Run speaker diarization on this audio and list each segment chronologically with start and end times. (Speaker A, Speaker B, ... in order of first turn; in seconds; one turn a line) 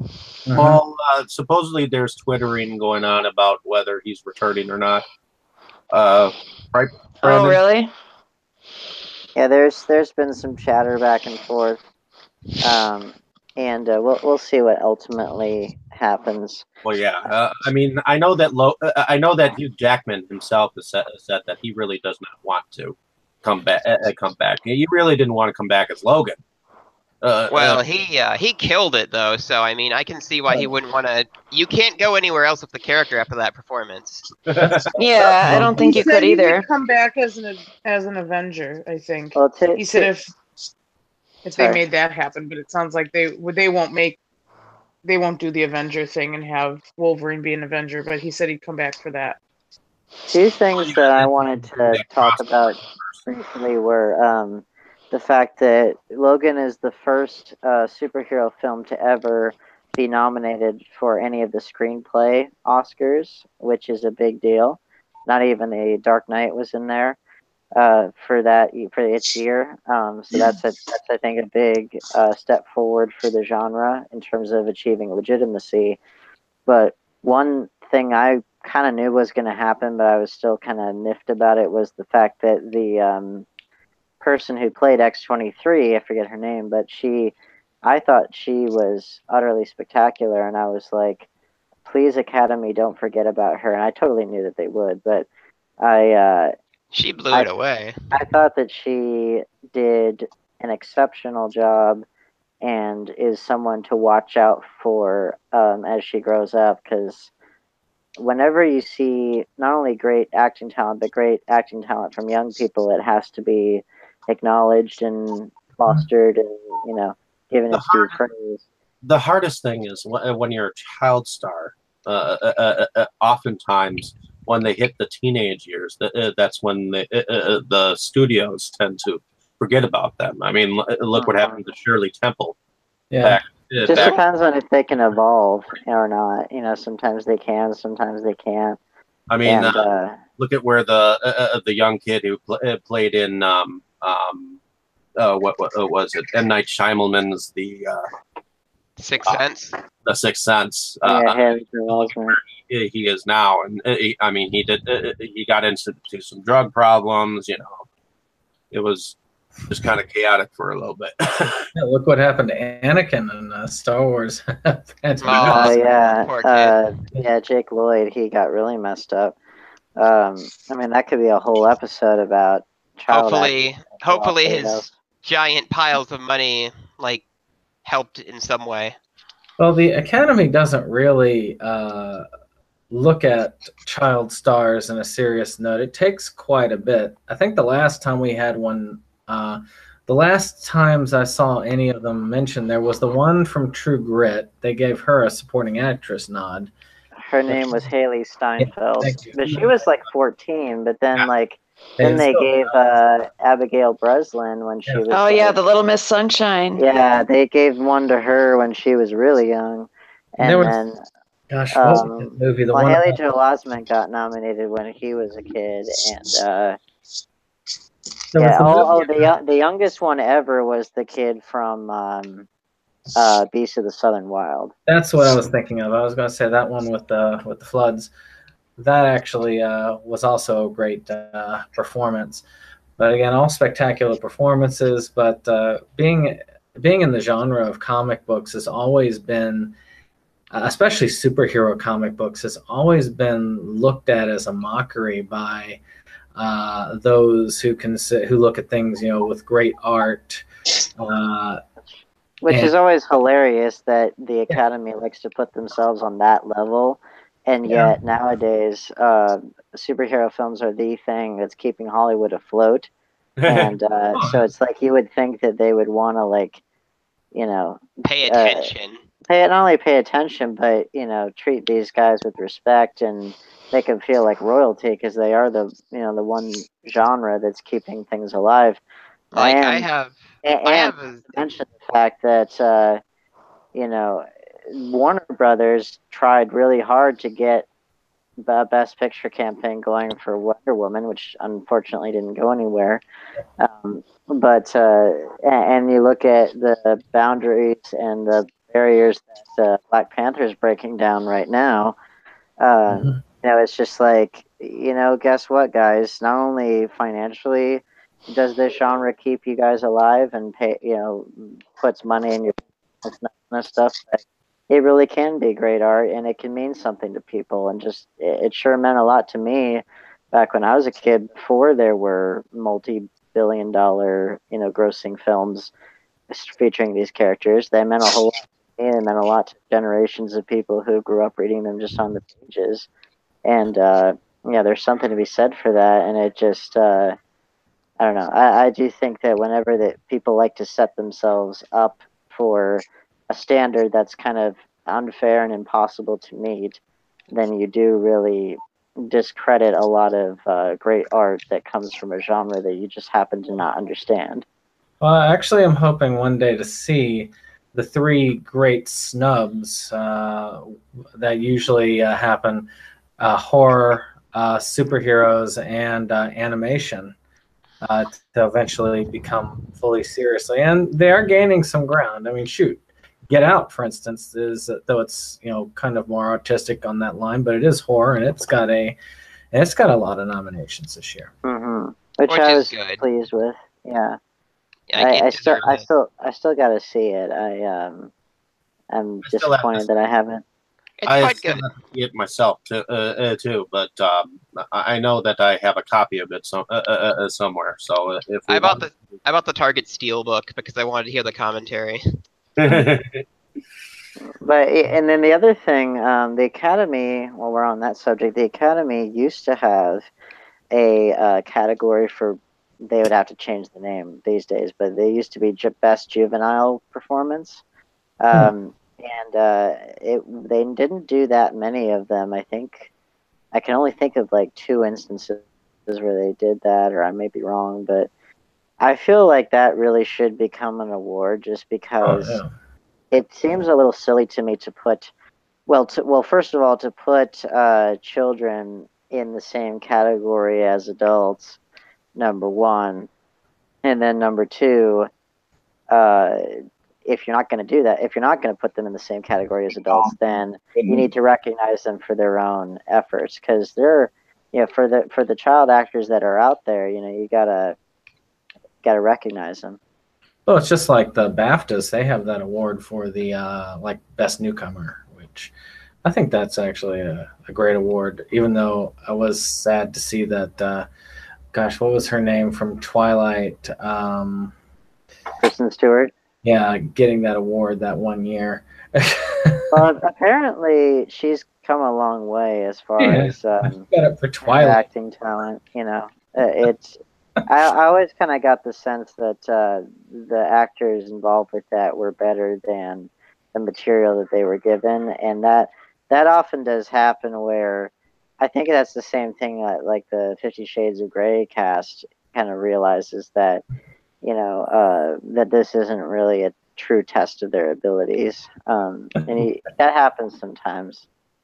Speaker A: 0.5-0.8
Speaker B: 0.5-5.0
Speaker B: 5.9-7.6
Speaker C: 7.2-7.9
Speaker D: 9.3-11.8
Speaker D: 12.6-16.6
Speaker B: 16.8-26.4
Speaker B: 27.2-27.8
Speaker E: 27.5-34.2
Speaker B: 34.5-36.0
Speaker C: 35.0-36.6
Speaker A: 35.5-35.8
Speaker F: 35.8-40.3
Speaker D: 39.3-40.1
Speaker F: 41.4-44.2
Speaker F: 45.0-49.4
Speaker D: 50.3-67.2
Speaker B: 50.8-53.2
Speaker D: 67.8-76.0
Speaker D: 76.7-83.4
Speaker D: 84.2-91.3
Speaker D: 91.8-95.3
Speaker D: 95.8-96.5
Speaker E: 96.9-97.9
Speaker D: 98.1-102.0
Speaker D: 102.6-107.3
Speaker D: 108.2-118.6
Speaker B: 117.7-118.2
Speaker B: 119.0-132.6
Speaker D: 131.1-131.6
Speaker A: 133.1-133.4
Speaker B: 133.2-134.2
Speaker D: 133.9-138.8
Speaker B: 139.3-139.9
Speaker D: 139.4-140.2
Speaker B: 140.4-144.6
Speaker B: 145.2-148.1
Speaker E: 149.0-149.8
Speaker B: 150.0-157.8
Speaker D: 151.0-152.4
Speaker B: 158.7-159.2
Speaker B: 159.7-161.7
Speaker A: 161.7-165.8
Speaker E: 165.2-166.8
Speaker D: 165.4-169.3
Speaker D: 170.0-174.9
Speaker E: 173.1-177.2
Speaker E: 177.8-179.0
Speaker A: 179.6-182.2
Speaker A: 182.9-196.7
Speaker D: 197.2-205.6
Speaker A: 197.5-197.8
Speaker A: 198.6-199.7
Speaker A: 202.0-202.7
Speaker C: 205.1-206.8
Speaker D: 206.8-211.0
Speaker A: 210.4-210.8
Speaker A: 211.5-213.2
Speaker D: 211.7-216.8
Speaker A: 218.3-219.3
Speaker D: 218.4-222.4
Speaker D: 223.1-224.7
Speaker A: 224.9-228.1
Speaker A: 228.8-232.4
Speaker A: 233.0-239.7
Speaker A: 240.5-245.8
Speaker A: 246.3-250.4
Speaker A: 251.0-251.6
Speaker D: 252.4-262.9
Speaker A: 257.7-257.9
Speaker B: 263.4-263.7
Speaker D: 263.4-266.6
Speaker D: 267.3-268.7
Speaker E: 268.0-269.0
Speaker D: 269.3-278.8
Speaker E: 279.3-281.5
Speaker D: 279.4-279.9
Speaker D: 280.4-283.0
Speaker D: 283.7-287.7
Speaker D: 288.4-293.0
Speaker D: 293.6-301.9
Speaker D: 302.6-325.7
Speaker A: 302.9-303.2
Speaker D: 326.3-332.9
Speaker D: 333.4-337.2
Speaker D: 338.0-346.8
Speaker D: 347.3-354.4
Speaker A: 355.0-362.7
Speaker A: 363.2-367.1
Speaker A: 367.8-379.0
Speaker A: 379.5-381.3
Speaker D: 381.4-384.2
Speaker E: 382.3-383.0
Speaker E: 384.9-385.9
Speaker D: 385.0-388.1
Speaker D: 388.9-390.4
Speaker B: 389.2-389.9
Speaker E: 391.0-391.6
Speaker B: 391.1-399.1
Speaker E: 398.5-402.0
Speaker B: 402.6-403.2
Speaker D: 404.4-410.1
Speaker D: 410.7-417.6
Speaker D: 418.2-422.9
Speaker D: 423.5-428.1
Speaker D: 428.8-432.4
Speaker A: 432.0-432.5
Speaker D: 433.1-435.1
Speaker D: 435.7-441.6
Speaker D: 442.1-443.1
Speaker D: 443.8-445.1
Speaker D: 445.9-457.8
Speaker D: 458.8-459.8
Speaker A: 460.4-465.5
Speaker A: 466.0-470.9
Speaker A: 471.5-474.5
Speaker D: 475.4-476.1
Speaker A: 476.4-479.7
Speaker D: 479.7-483.9
Speaker A: 483.0-484.8
Speaker D: 484.4-503.6
Speaker D: 504.2-511.0